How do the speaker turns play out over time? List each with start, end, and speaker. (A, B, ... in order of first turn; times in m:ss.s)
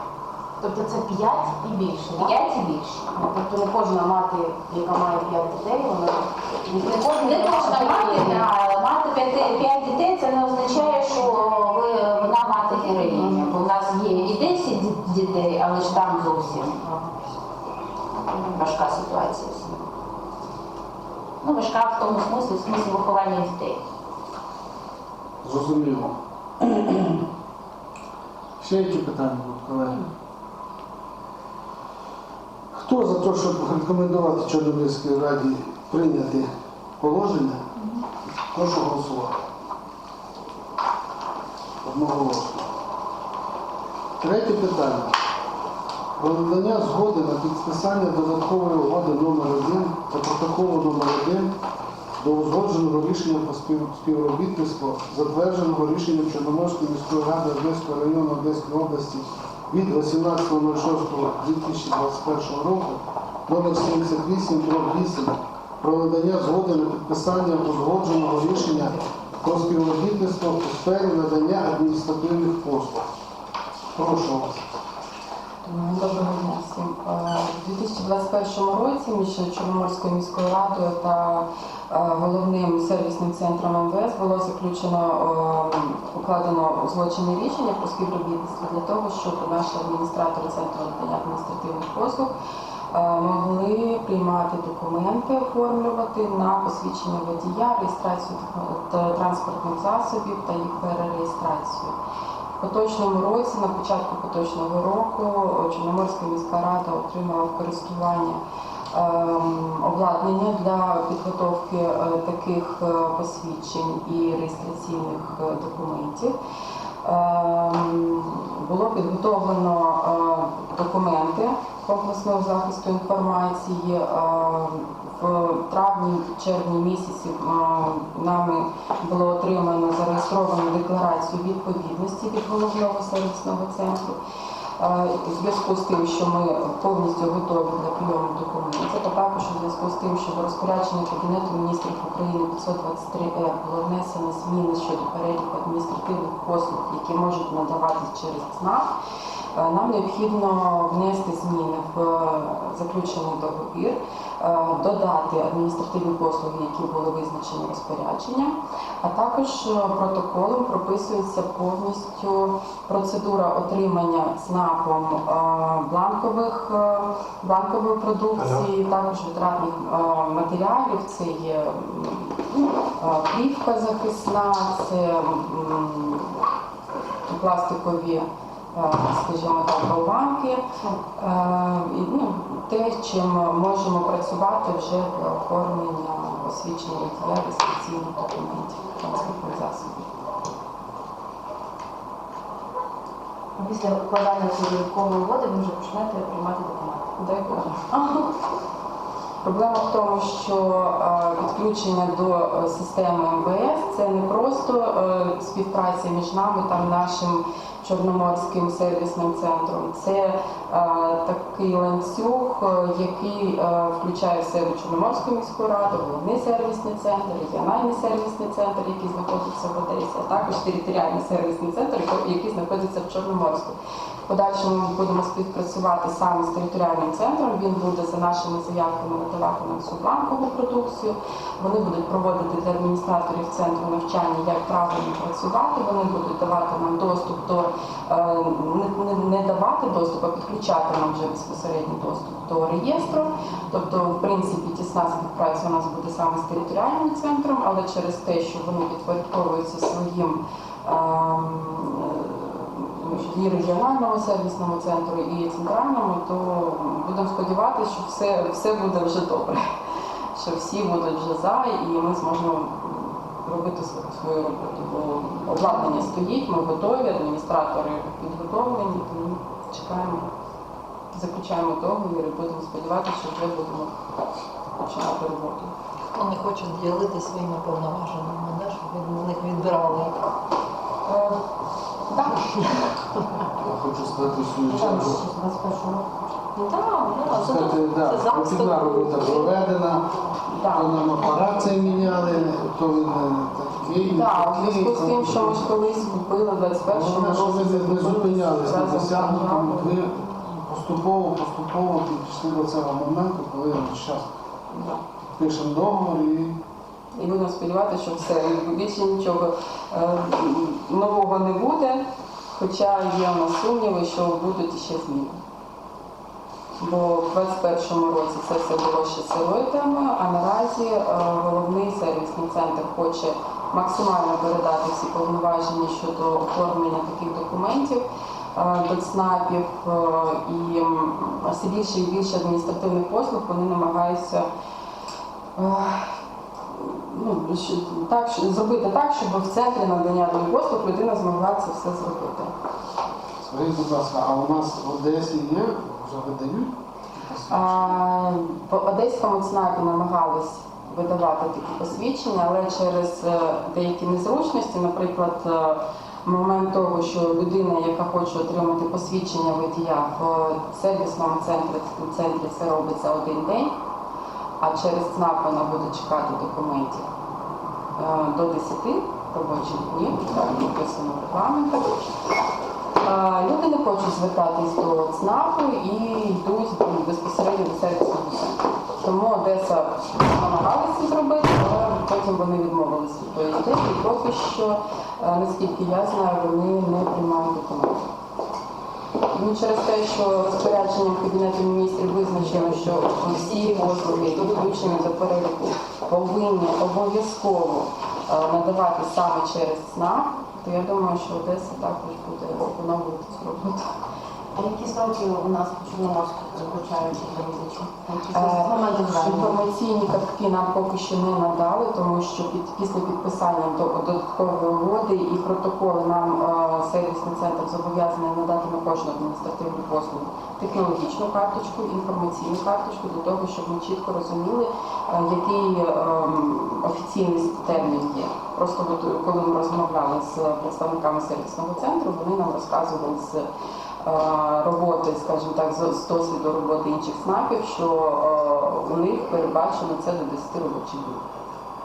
0:00.6-0:02.6 A
0:02.1-0:03.1 B
0:03.1-0:08.5 A
0:06.9-0:16.8 B
0:11.0-0:11.3 A
0:12.6-0:14.5 A
0:16.8-0:17.2 A
0:18.3-0:19.8 B
0:21.4-0:23.8 B
0:25.4-0:27.2 C
0:28.6-0:30.0 C
0:32.7-0:37.6 C
0:38.5-0:39.5 C
0:41.8-0:42.7 C
0:44.2-0:45.1 C
0:46.2-0:51.5 C
0:52.2-1:13.1 C
1:14.0-1:14.6 C
1:15.6-1:32.3 D
1:32.9-1:42.0 D
1:42.6-1:48.4 D
1:48.9-1:56.4 D
1:57.0-2:14.2 D
2:14.8-2:28.9 D
2:29.6-2:52.4 D
2:53.0-2:56.4 D
2:57.3-3:00.6 D
3:01.2-3:10.1 D
3:13.6-3:17.1 A
3:17.2-3:18.3 D
3:19.4-3:43.8 D
3:44.3-4:19.6 D
4:20.4-4:30.3 D
4:31.1-4:33.9 D
4:34.8-4:35.7 D
4:36.2-4:40.2 E
4:41.0-4:41.4 D
4:42.1-4:42.7 D
4:43.6-4:45.2 C
4:44.7-4:46.3 A
4:46.6-4:49.5 E
4:47.2-4:55.7 C
4:50.5-4:51.0 D
4:54.1-5:00.0 D
4:56.9-5:04.3 C
5:04.7-5:05.0 D
5:05.4-5:06.6 C
5:07.2-5:12.0 D
5:12.5-5:15.4 D
5:16.8-5:34.5 D
5:35.6-5:36.1 D
5:36.7-5:42.5 D
5:43.4-5:48.0 C
5:47.5-6:03.8 D
6:04.6-6:07.1 D
6:08.0-6:12.1 D
6:13.0-6:28.1 D
6:29.3-6:43.9 D
6:33.6-6:34.7 A
6:44.6-6:49.6 A
6:48.3-7:13.5 D
7:14.0-7:21.2 D